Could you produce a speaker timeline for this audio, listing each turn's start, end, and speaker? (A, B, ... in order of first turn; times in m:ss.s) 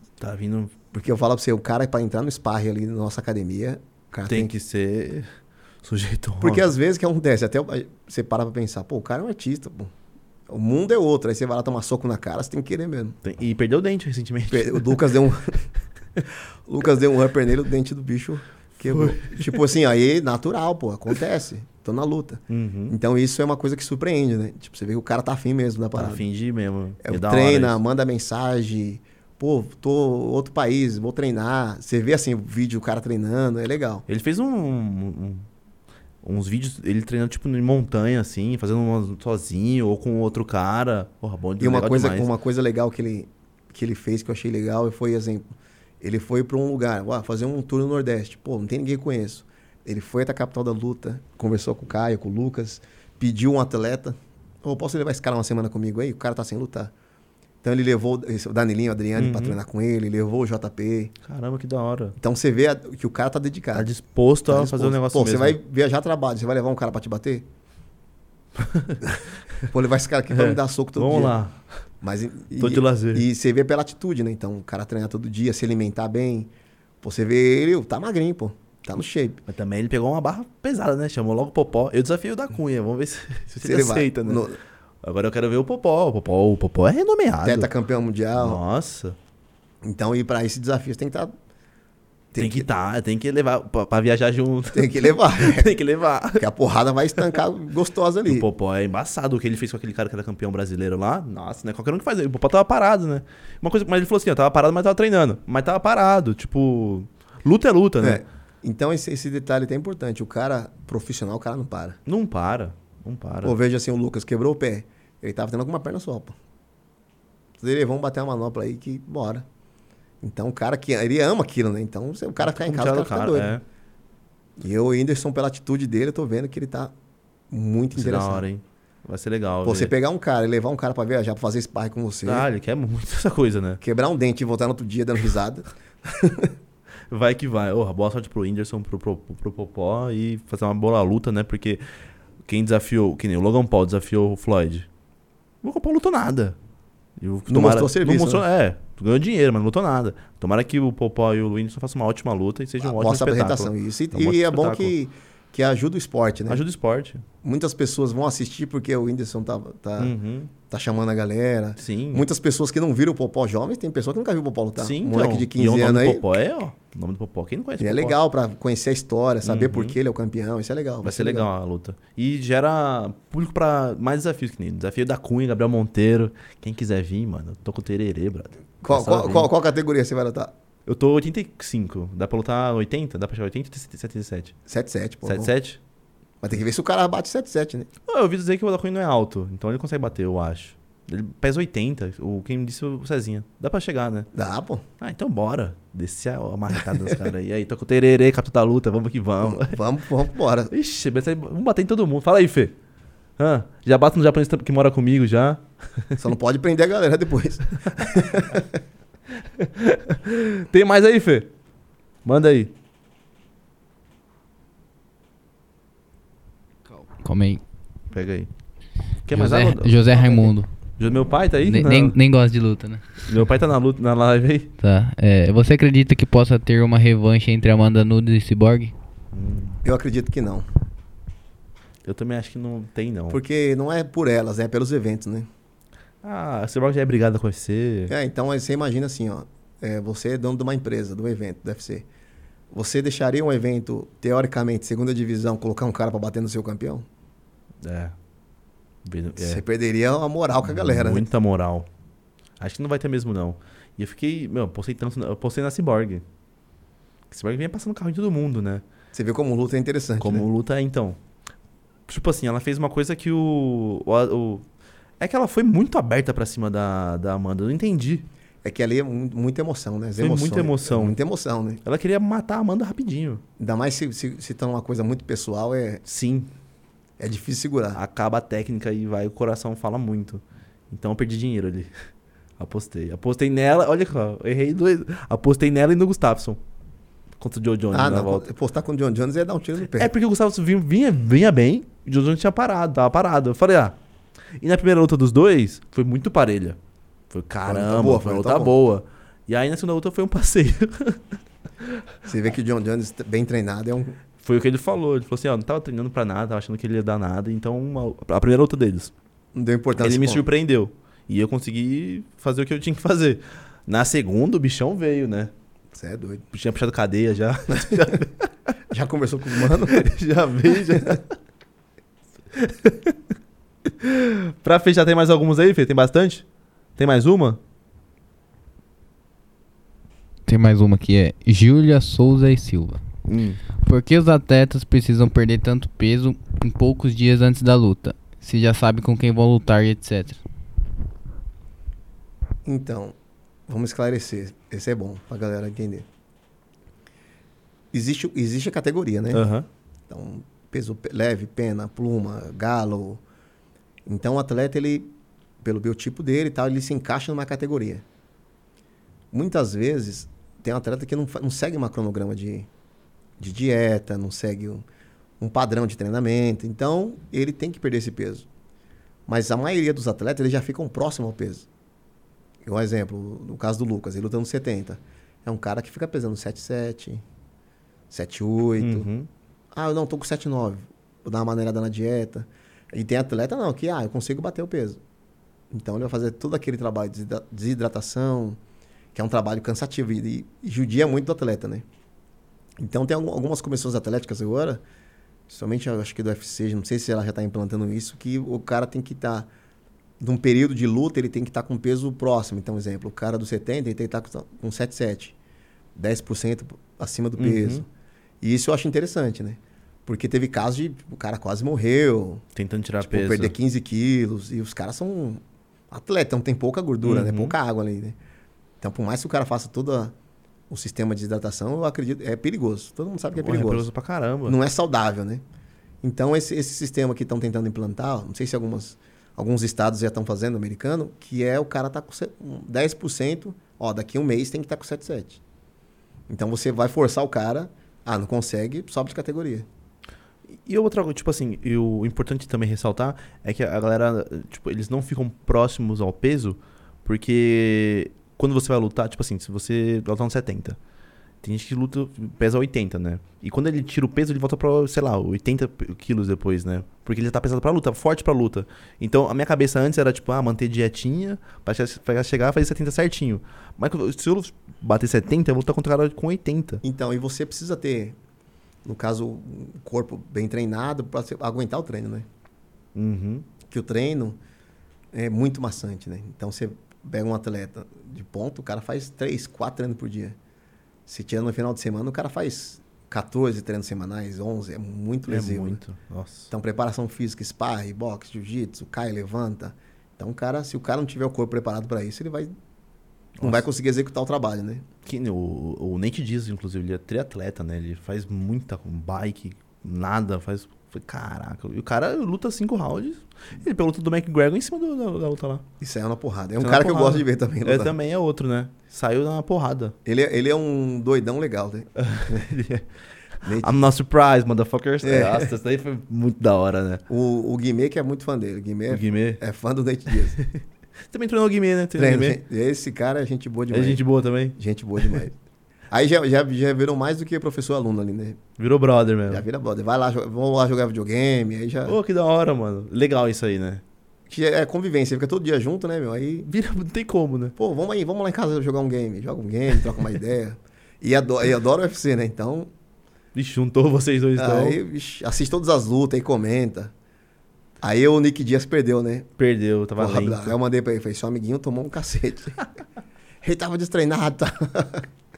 0:00.2-0:00.8 A
0:00.9-0:04.5 B
0:04.3-0:05.3 A
0:05.8-0:06.7 A
0:06.4-0:09.9 B
0:10.5-0:13.2 B
0:13.2-0:15.0 A
0:14.5-0:15.6 B
0:16.6-0:26.2 B
0:18.8-0:19.5 A
0:22.5-0:23.0 A
0:25.9-0:27.8 A
0:27.0-0:34.0 B
0:34.1-0:35.5 A
0:36.2-0:42.3 A
0:41.6-0:45.4 B
0:46.0-0:56.9 B
0:57.6-1:01.1 B
0:59.1-0:59.6 A
1:01.2-1:02.2 A
1:02.2-1:03.9 B
1:03.7-1:05.6 A
1:04.5-1:07.4 B
1:08.6-1:09.1 A
1:09.7-1:11.3 B
1:10.3-1:11.6 A
1:12.0-1:16.5 B
1:12.6-1:13.2 A
1:17.0-1:19.4 B
1:19.5-1:24.4 A
1:23.6-1:24.6 B
1:25.0-1:27.7 A
1:27.4-1:28.6 B
1:28.3-1:29.2 A
1:29.8-1:31.3 B
1:32.3-1:32.7 B
1:32.4-1:36.5 A
1:34.7-1:35.7 B
1:36.4-1:38.5 B
1:38.2-1:48.2 A
1:48.0-1:52.0 B
1:52.0-1:53.5 A
1:53.4-1:56.4 B
1:57.6-1:59.4 B
2:00.2-2:03.5 B
2:02.4-2:03.6 A
2:04.6-2:06.9 B
2:07.5-2:08.4 B
2:07.9-2:09.9 A
2:09.6-2:12.5 B
2:12.2-2:13.8 A
2:13.8-2:16.5 B
2:17.1-2:21.8 A
2:22.4-2:24.9 A
2:25.6-2:26.6 A
2:27.2-2:34.9 A
2:27.5-2:28.4 B
2:32.8-2:36.6 B
2:36.5-2:37.2 A
2:37.4-2:40.1 B
2:40.0-2:40.5 A
2:40.7-2:46.3 B
2:41.8-2:42.3 A
2:44.8-2:48.2 A
2:47.8-2:51.5 B
2:49.4-2:50.0 A
2:51.0-2:59.5 A
2:58.8-3:00.5 B
3:00.8-3:04.5 A
3:04.7-3:05.5 B
3:05.2-3:05.8 A
3:06.4-3:07.9 B
3:08.1-3:14.3 A
3:14.3-3:14.8 B
3:15.0-3:19.8 A
3:19.4-3:20.7 B
3:20.7-3:22.7 A
3:23.4-3:26.2 A
3:26.2-3:28.8 B
3:29.5-3:31.5 A
3:32.2-3:32.7 A
3:37.2-3:37.6 C
3:38.1-3:38.5 A
3:39.2-3:40.1 A
3:39.3-3:40.7 C
3:40.1-3:40.5 B
3:41.0-3:42.2 A
3:41.7-3:43.2 C
3:43.2-3:44.7 A
3:44.8-3:48.9 C
3:49.3-3:49.8 A
3:49.8-3:50.6 B
3:52.0-3:53.4 A
3:53.3-3:55.5 B
3:56.2-3:58.1 A
3:58.1-4:02.1 B
4:02.7-4:07.0 B
4:07.8-4:08.1 A
4:09.0-4:09.6 A
4:09.4-4:11.2 B
4:10.6-4:11.9 A
4:12.6-4:16.2 A
4:17.3-4:18.8 A
4:19.1-4:20.5 B
4:20.2-4:21.2 A
4:22.1-4:24.6 A
4:25.2-4:28.2 A
4:28.6-4:31.8 B
4:30.2-4:31.2 A
4:31.8-4:33.4 A
4:33.6-4:36.0 B
4:36.0-4:36.5 A
4:37.2-4:38.0 B
4:37.9-4:41.9 A
4:42.6-4:46.6 A
4:47.4-4:48.5 A
4:47.9-4:50.1 B
4:49.9-4:54.0 A
4:54.6-4:56.8 A
4:57.3-5:01.2 A
4:57.6-4:58.8 B
5:02.2-5:04.2 B
5:04.4-5:09.1 A
5:09.5-5:10.4 B
5:10.0-5:15.5 A
5:15.9-5:16.4 B
5:16.5-5:18.5 A
5:17.8-5:18.2 B
5:18.9-5:20.1 B
5:19.8-5:21.4 A
5:22.6-5:23.2 A
5:23.8-5:26.4 A
5:27.0-5:27.6 A
5:30.5-5:33.0 C
5:33.3-5:33.6 A
5:33.8-5:40.4 C
5:42.6-5:43.1 B
5:43.7-5:46.0 B
5:47.9-5:49.4 B
5:49.3-5:49.6 A
5:50.1-5:53.2 B
5:54.0-5:58.0 B
5:59.3-6:02.7 B
6:03.4-6:04.8 B
6:05.4-6:08.4 B
6:09.3-6:11.7 B
6:12.6-6:17.2 B
6:18.1-6:19.1 B
6:18.8-6:19.3 A
6:19.7-6:25.0 B
6:25.7-6:28.6 B
6:29.1-6:31.8 B
6:32.8-6:34.8 B
6:35.5-6:39.5 B
6:40.2-6:45.4 B
6:45.9-6:47.8 B
6:47.4-6:47.8 A
6:48.4-6:52.4 B
6:52.6-6:53.5 A
6:53.0-6:58.2 B
6:57.0-6:57.6 A
6:58.8-7:00.1 B
7:00.7-7:03.9 B
7:03.3-7:04.6 A
7:04.4-7:05.4 B
7:06.0-7:15.4 B
7:16.3-7:19.7 B
7:20.6-7:30.8 A
7:31.4-7:46.8 A
7:46.8-7:48.2 B
7:48.8-7:52.2 B
7:52.9-7:53.5 A
7:53.6-7:54.4 B
7:55.1-8:00.4 B
8:01.0-8:05.8 B
8:05.3-8:06.5 A
8:06.5-8:12.5 B
8:13.4-8:14.8 B
8:15.0-8:25.6 A
8:25.8-8:27.9 B
8:26.6-8:30.0 A
8:30.0-8:32.5 B
8:32.0-8:32.9 A
8:33.4-8:33.8 B
8:33.4-8:37.0 A
8:35.0-8:35.5 B
8:37.1-8:40.4 B
8:38.9-8:39.4 A
8:40.4-8:42.4 A
8:42.0-8:44.0 B
8:43.7-8:45.2 A
8:44.6-8:45.3 B
8:45.9-8:48.4 B
8:48.6-8:49.4 A
8:49.3-8:52.0 B
8:51.8-8:53.8 A
8:54.3-8:56.5 B
8:56.4-8:57.5 A
8:57.6-9:02.7 B
9:03.3-9:04.8 A
9:04.4-9:06.9 B
9:07.8-9:09.3 B
9:09.4-9:10.6 A
9:10.0-9:12.6 B
9:13.4-9:15.0 B